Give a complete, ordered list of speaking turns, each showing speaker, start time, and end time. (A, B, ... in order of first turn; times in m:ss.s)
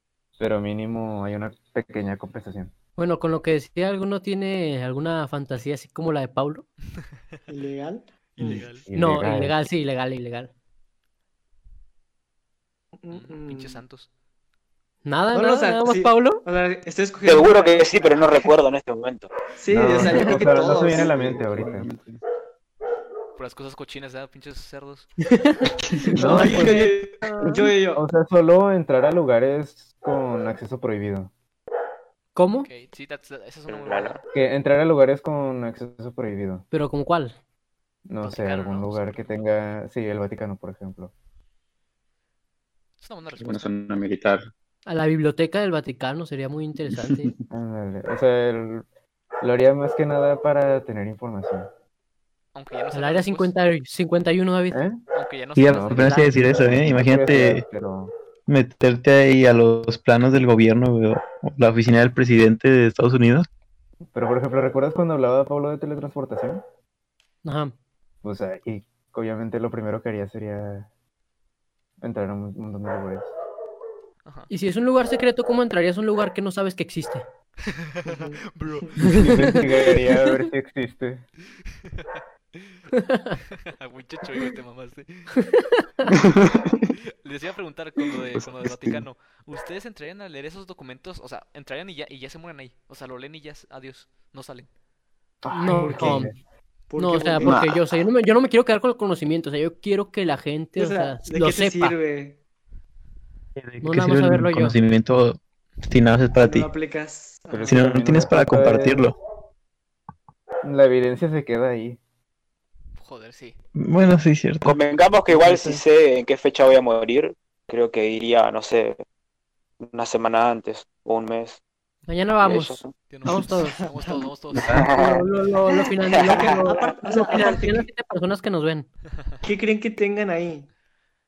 0:00.4-0:02.7 A
0:03.0-0:06.6 B
0:07.0-0:07.4 C
0:07.5-0:08.6 D
0:08.4-0:08.8 C
0:08.8-0:09.5 A
0:08.9-0:10.5 B
0:13.0-0:13.8 D
0:13.1-0:14.1 C
0:15.0-0:16.4 B
0:15.3-0:18.5 D
0:17.2-0:19.3 E
0:19.6-0:21.1 D
0:19.7-0:21.9 A
0:20.0-0:20.4 B
0:20.7-0:22.2 F
0:23.4-0:25.1 C
0:25.3-0:27.7 B
0:25.8-0:26.6 F
0:26.1-0:26.9 A
0:26.3-0:28.0 D
0:27.9-0:31.3 A
0:32.3-0:32.7 B
0:32.6-0:34.2 C
0:33.7-0:34.2 E
0:34.3-0:36.6 A
0:36.7-0:37.4 B
0:38.0-0:41.1 A
0:38.2-0:39.5 C
0:43.0-0:43.7 C
0:43.4-0:44.5 F
0:44.8-0:47.3 B
0:46.9-0:47.4 F
0:47.5-0:48.8 A
0:49.4-0:51.7 A
0:52.5-0:53.5 C
0:52.9-0:54.8 B
0:54.7-0:55.0 A
0:55.1-0:56.2 C
0:55.6-0:57.6 G
0:55.7-0:58.1 A
0:55.9-0:56.4 B
0:58.5-1:03.5 G
1:04.1-1:06.6 A
1:07.4-1:07.7 B
1:08.2-1:10.9 A
1:12.0-1:13.3 A
1:14.2-1:14.5 C
1:14.5-1:17.2 B
1:17.7-1:19.2 C
1:18.0-1:18.9 D
1:19.0-1:20.5 B
1:19.0-1:21.2 A
1:22.0-1:22.8 C
1:23.0-1:23.3 B
1:23.5-1:25.4 C
1:25.4-1:26.1 B
1:26.1-1:26.8 F
1:26.9-1:34.7 C
1:35.4-1:36.3 A
1:35.5-1:36.3 B
1:36.9-1:37.6 D
1:37.0-1:42.0 B
1:37.4-1:37.8 F
1:40.8-1:42.4 D
1:43.6-1:46.7 G
1:43.8-1:44.8 B
1:46.4-1:48.1 D
1:47.5-1:49.1 A
1:47.6-1:49.2 G
1:50.6-1:52.0 A
1:53.0-1:53.6 C
1:53.8-1:54.8 G
1:54.6-1:59.0 E
1:55.3-1:55.8 A
1:59.8-2:01.6 E
2:02.1-2:03.8 B
2:02.4-2:02.9 E
2:03.1-2:04.9 C
2:04.7-2:05.2 E
2:04.7-2:08.9 B
2:05.7-2:07.9 D
2:06.0-2:06.6 E
2:09.4-2:10.7 D